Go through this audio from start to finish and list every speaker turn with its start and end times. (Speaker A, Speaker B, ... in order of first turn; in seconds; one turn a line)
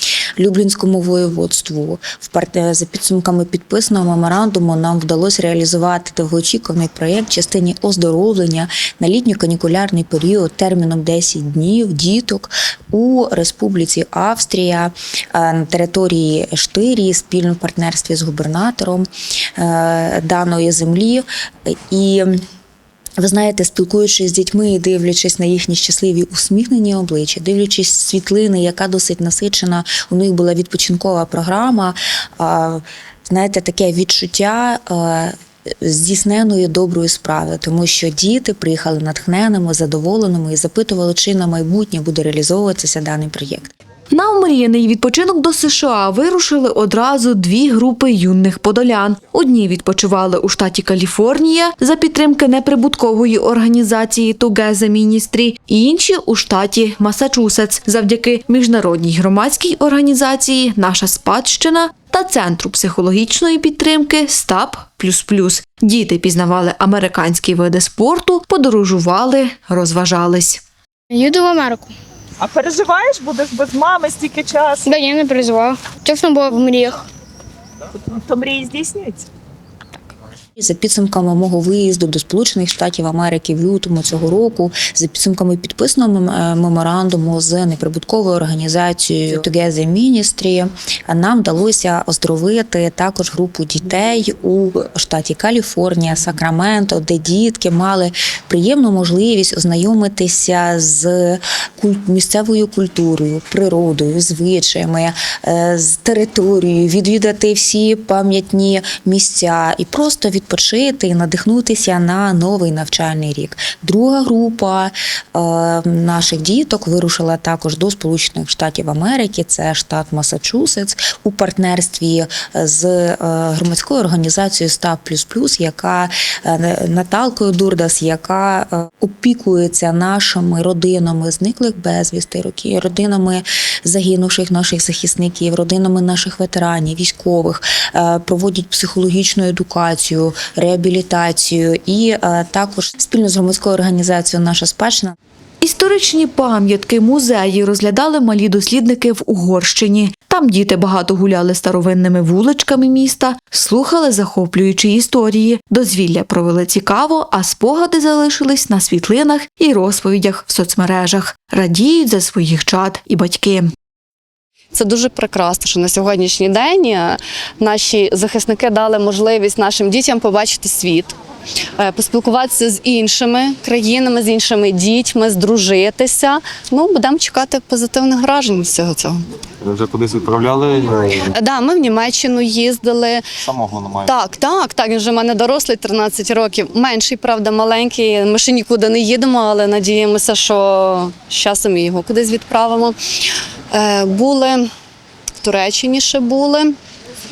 Speaker A: 0.4-22.4
Speaker A: 23.2-43.7
Speaker B: 44.1-70.6
Speaker C: 71.1-71.9
Speaker D: 72.4-74.9
Speaker C: 74.8-77.0
Speaker D: 78.1-79.3
Speaker A: 80.6-145.1
Speaker B: 145.6-163.7
Speaker E: 164.7-171.1
Speaker E: 171.8-179.2
Speaker F: 179.7-181.2
Speaker E: 181.4-183.2
Speaker F: 183.4-184.1
Speaker E: 184.1-192.9
Speaker E: 193.7-194.6
Speaker E: 195.4-196.7